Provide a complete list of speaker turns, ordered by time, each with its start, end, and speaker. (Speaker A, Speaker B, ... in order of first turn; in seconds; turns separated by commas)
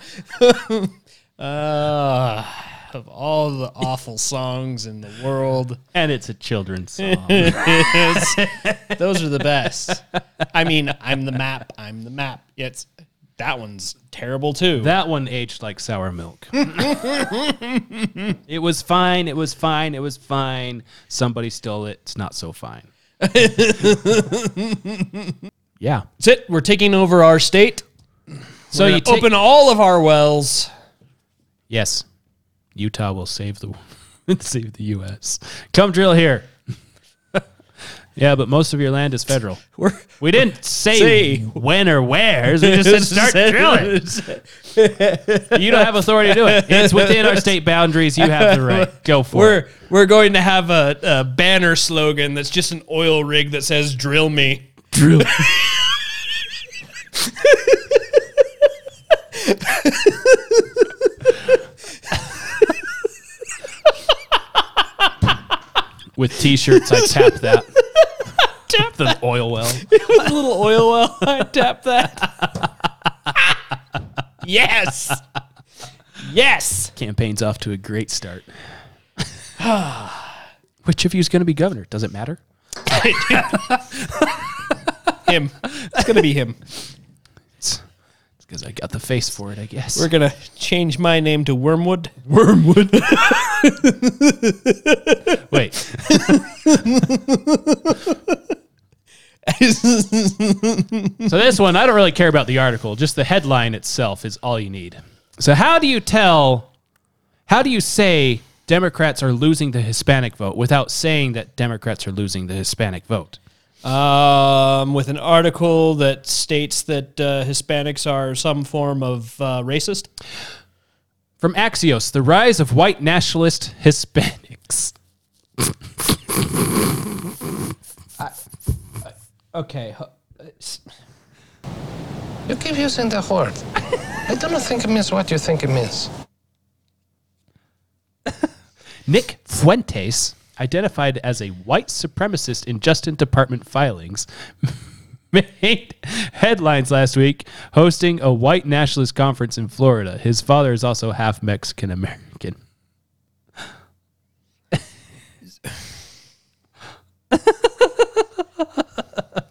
Speaker A: 0.4-5.8, Speaker B: 5.9-9.0, Speaker A: 7.0-14.9, Speaker B: 14.8-16.9, Speaker A: 16.9-18.1, Speaker B: 18.5-22.9, Speaker A: 23.2-25.3, Speaker B: 25.8-26.1, Speaker A: 26.2-27.9, Speaker A: 28.7-30.7, Speaker B: 28.7-29.3, Speaker B: 31.7-32.0, Speaker B: 32.7-36.5, Speaker B: 38.2-39.6, Speaker A: 39.8-41.6, Speaker B: 40.2-43.9, Speaker A: 42.6-47.5, Speaker B: 45.5-49.6, Speaker A: 48.2-56.0, Speaker B: 54.9-55.5, Speaker A: 57.3-58.0, Speaker A: 59.4-60.9, Speaker B: 66.1-67.7, Speaker A: 66.7-67.3, Speaker A: 68.0-68.9, Speaker B: 68.7-70.0, Speaker A: 69.9-72.5, Speaker A: 74.4-75.2, Speaker A: 76.2-76.9, Speaker B: 77.0-78.5, Speaker A: 79.6-80.4, Speaker B: 80.8-82.4, Speaker A: 82.9-83.7, Speaker B: 83.3-84.3, Speaker A: 85.2-86.6, Speaker B: 88.4-90.1, Speaker A: 90.0-95.4, Speaker B: 95.5-96.5, Speaker A: 96.1-98.4, Speaker A: 99.5-101.3, Speaker B: 101.3-106.7, Speaker B: 107.5-113.4, Speaker A: 113.8-120.1, Speaker B: 121.4-125.0, Speaker A: 129.0-130.8, Speaker C: 132.5-133.6, Speaker C: 134.3-136.1, Speaker B: 139.1-144.8, Speaker B: 145.3-152.6